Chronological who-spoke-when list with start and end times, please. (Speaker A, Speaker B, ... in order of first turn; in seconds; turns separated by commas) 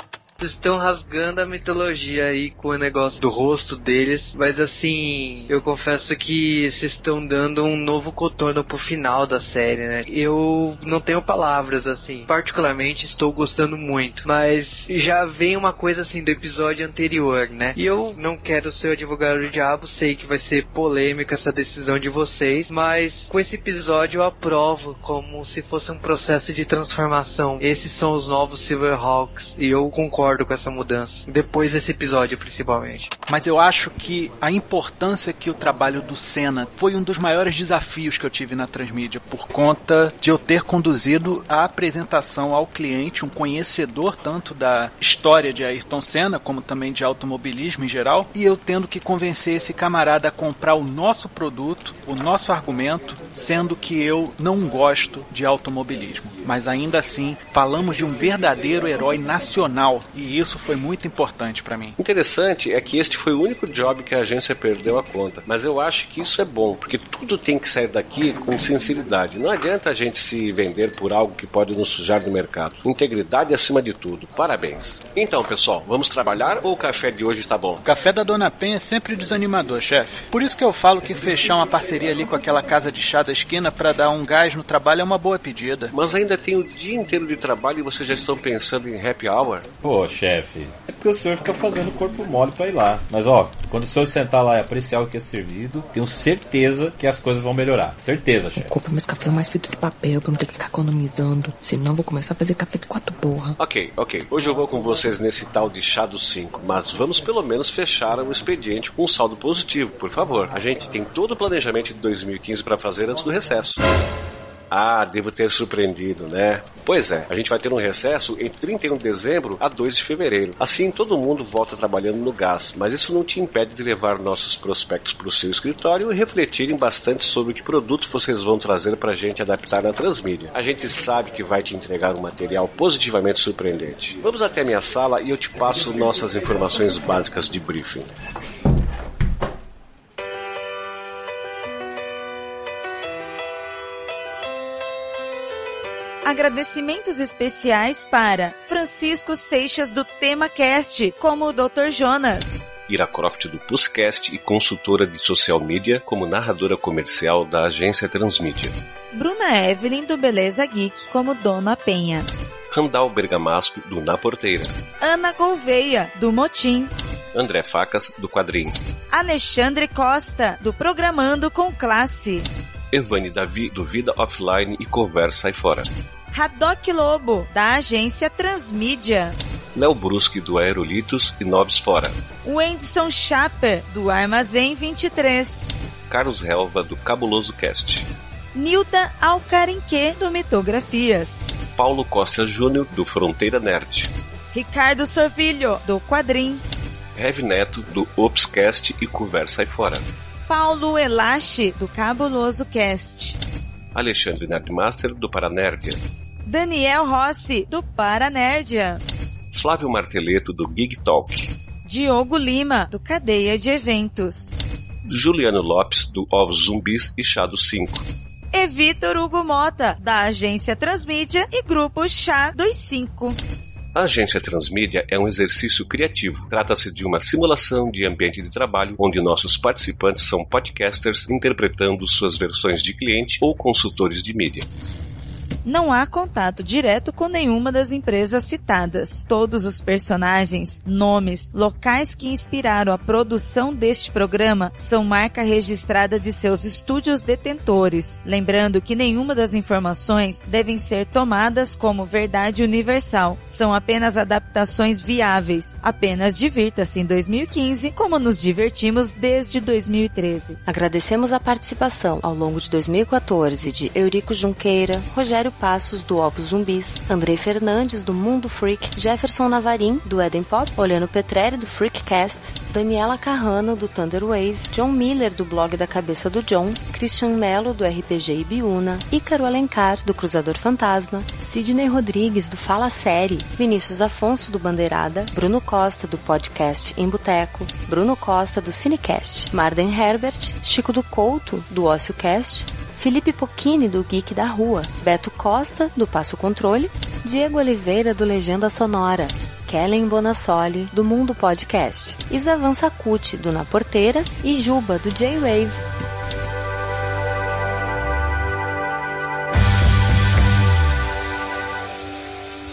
Speaker A: 0.4-33.1, Speaker B: 33.3-62.0, Speaker C: 62.0-77.8, Speaker B: 77.8-85.9, Speaker C: 85.9-89.7, Speaker D: 89.8-98.8, Speaker E: 98.6-103.5, Speaker C: 103.6-113.8, Speaker C: 114.7-138.1, Speaker F: 146.2-152.7, Speaker C: 152.9-158.8, Speaker F: 159.1-162.3, Speaker C: 162.7-164.8, Speaker F: 165.0-166.9, Speaker C: 167.3-168.8, Speaker F: 169.1-172.5, Speaker C: 172.9-175.9, Speaker F: 176.3-179.4, Speaker C: 179.8-182.2, Speaker F: 182.4-185.8, Speaker C: 186.1-188.1, Speaker F: 188.6-191.4, Speaker C: 191.8-194.1, Speaker F: 194.5-196.6, Speaker C: 197.2-200.1, Speaker F: 200.5-203.4, Speaker C: 203.9-206.0, Speaker F: 206.5-209.0, Speaker C: 209.5-211.5, Speaker F: 211.8-214.6, Speaker C: 215.1-218.0, Speaker F: 218.5-223.4, Speaker C: 223.9-234.7, Speaker F: 235.7-260.6, Speaker G: 260.7-305.8